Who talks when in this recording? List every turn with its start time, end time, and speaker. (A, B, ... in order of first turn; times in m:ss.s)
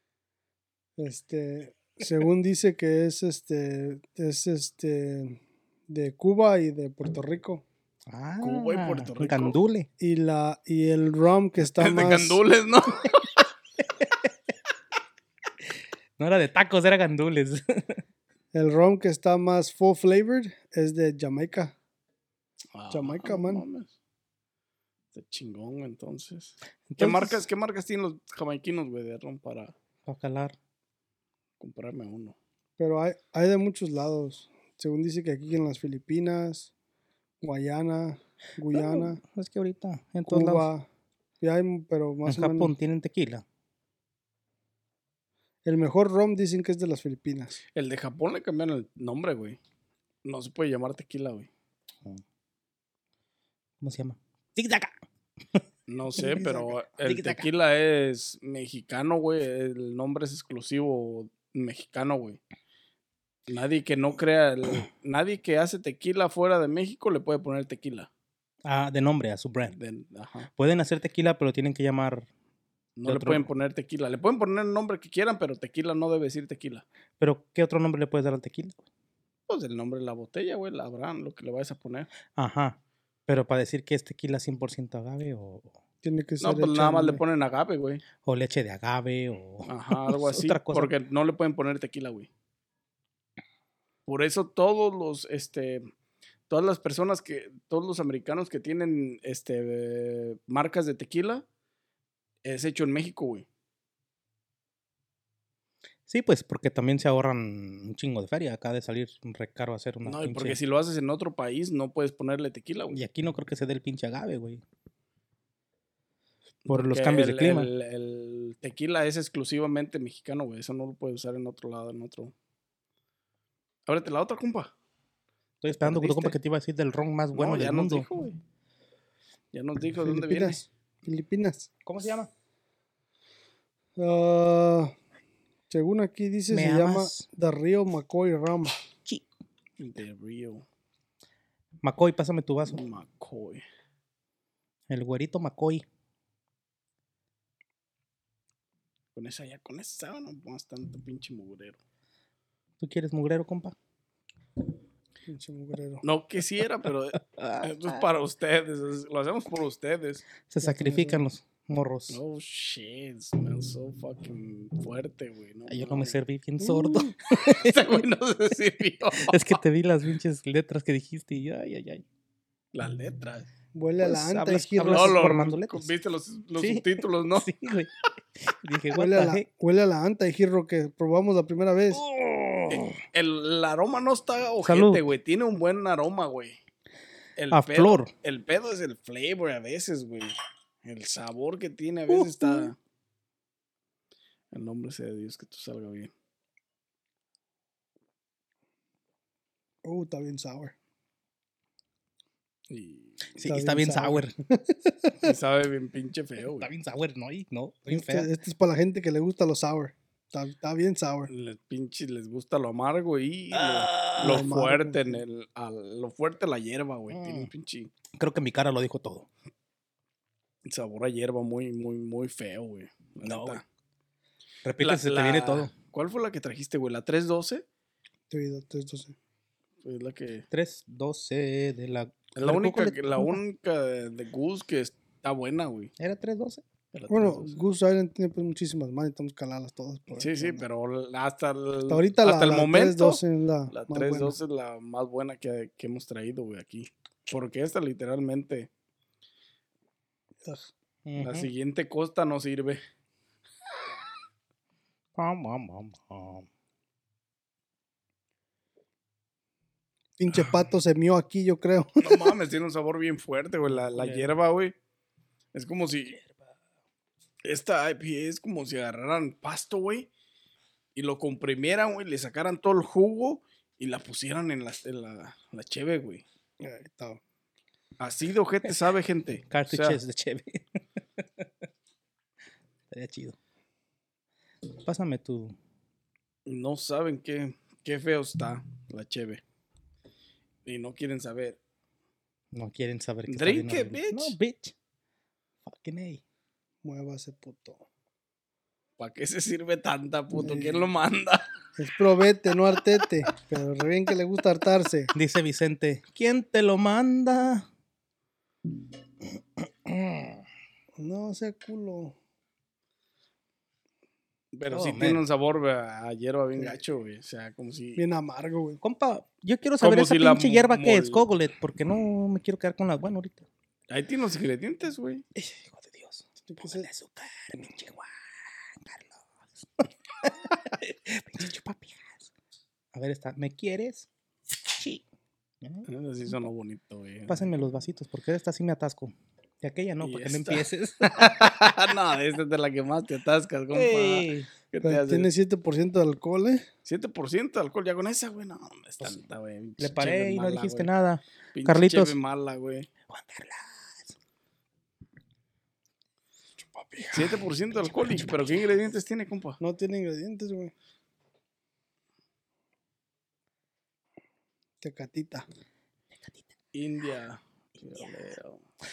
0:01.0-0:07.6 A
0:08.1-0:09.9 B
0:08.4-0:09.6 C
0:10.0-0:12.4 A
0:11.7-0:13.4 C
0:14.0-0:14.3 B
0:16.2-0:18.0 B
0:18.5-0:21.7 A
0:22.7-0:23.9 C
0:22.9-0:23.6 A
0:25.1-0:29.7 C
0:26.9-0:27.4 B
0:30.1-0:30.6 B
0:31.6-0:32.4 C
0:32.8-0:36.7 A
0:37.4-0:39.2 A
0:38.7-0:40.7 B
0:40.3-0:40.9 A
0:41.4-0:42.7 A
0:42.2-0:43.4 B
0:45.6-0:47.6 A
0:47.7-0:49.6 C
0:50.2-0:51.5 C
0:53.8-0:55.0 B
0:55.9-1:02.4 C
0:56.2-0:56.8 A
0:57.0-0:57.5 B
1:03.5-1:08.1 C
1:08.6-1:09.7 B
1:09.7-1:10.5 C
1:10.6-1:12.3 B
1:13.0-1:16.8 C
1:13.0-1:13.4 B
1:17.2-1:18.8 B
1:19.5-1:22.1 C
1:22.3-1:25.7 B
1:26.0-1:27.2 A
1:26.4-1:28.0 C
1:28.2-1:30.9 B
1:29.7-1:32.3 C
1:34.0-1:35.9 C
1:36.5-1:41.4 C
1:42.4-1:43.4 C
1:46.1-1:50.6 B
1:50.0-1:53.0 C
1:52.9-1:54.6 B
1:56.6-2:02.3 C
1:56.7-1:57.7 B
2:03.9-2:04.7 C
2:05.6-2:08.1 B
2:05.8-2:06.4 C
2:07.3-2:08.4 C
2:09.5-2:10.6 C
2:10.0-2:11.7 A
2:11.8-2:12.3 B
2:14.0-2:14.9 A
2:15.7-2:18.8 A
2:16.5-2:17.2 B
2:19.8-2:20.6 C
2:21.8-2:22.8 B
2:22.7-2:23.6 C
2:24.9-2:25.8 B
2:29.1-2:31.8 C
2:32.8-2:33.7 B
2:35.3-2:36.0 A
2:36.0-2:40.3 C
2:37.4-2:38.0 B
2:40.5-2:42.2 B
2:40.6-2:41.2 A
2:42.1-2:46.2 C
2:45.7-2:48.0 B
2:46.6-2:47.1 A
2:47.3-2:49.6 C
2:49.1-2:52.0 B
2:52.7-2:53.5 C
2:53.7-2:55.3 A
2:54.0-2:55.9 B
2:54.7-2:57.5 C
2:56.6-2:59.4 B
2:58.9-3:02.0 A
3:01.9-3:03.0 B
3:02.7-3:06.6 C
3:04.6-3:05.0 B
3:07.4-3:12.8 C
3:07.5-3:08.1 B
3:12.1-3:12.7 B
3:14.5-3:16.1 C
3:19.8-3:20.7 A
3:22.7-3:23.2 C
3:23.4-3:24.3 B
3:23.4-3:25.3 A
3:25.2-3:26.7 C
3:26.4-3:28.3 B
3:27.9-3:31.3 A
3:31.3-3:37.9 C
3:33.5-3:34.4 B
3:34.2-3:35.2 A
3:37.1-3:37.5 B
3:38.2-3:39.3 B
3:40.6-3:43.6 C
3:43.2-3:43.6 B
3:44.6-3:45.7 B
3:44.8-3:47.6 C
3:48.3-3:49.1 A
3:49.8-3:50.4 C
3:50.5-3:53.4 B
3:52.4-3:55.9 C
3:56.0-3:56.6 B
3:56.9-3:57.6 C
3:57.1-4:00.6 A
4:00.2-4:08.7 C
4:01.9-4:04.4 A
4:10.4-4:10.7 A
4:11.0-4:11.5 B
4:11.2-4:12.8 C
4:15.2-4:16.5 B
4:20.2-4:22.4 A
4:22.0-4:24.7 C
4:23.7-4:24.3 B
4:25.5-4:26.2 C
4:27.4-4:30.1 C
4:30.9-4:36.2 C
4:36.6-4:37.2 A
4:38.0-4:40.0 C
4:39.5-4:40.6 B
4:41.2-4:41.5 B
4:42.9-4:43.4 B
4:44.8-4:45.6 B
4:46.5-4:49.4 C
4:50.6-4:51.6 C
4:52.5-4:54.8 B
4:53.3-4:54.4 C
4:55.6-4:56.2 B
4:56.8-4:57.8 A
4:59.0-5:01.4 C
5:00.4-5:00.9 A
5:01.8-5:05.1 A
5:05.1-5:07.7 B
5:09.6-5:10.4 B
5:11.0-5:12.2 A
5:14.5-5:18.0 C
5:14.7-5:15.2 B
5:18.0-5:18.8 A
5:18.8-5:23.4 B
5:19.8-5:21.2 C
5:23.9-5:25.2 C
5:25.4-5:32.3 B
5:26.4-5:26.9 A
5:32.9-5:34.1 B
5:34.6-5:35.0 B
5:35.6-5:35.9 B
5:35.9-5:37.5 C
5:37.3-5:41.5 B
5:40.0-5:45.3 C
5:43.7-5:44.5 B
5:44.8-5:46.7 A
5:46.8-5:50.9 C
5:49.8-5:52.1 B
5:51.5-5:52.9 C
5:53.1-5:54.1 B
5:56.6-5:57.4 A
5:57.1-5:59.6 C
5:57.8-5:58.6 B
5:59.6-6:00.7 A
6:04.8-6:05.4 A
6:06.7-6:08.6 C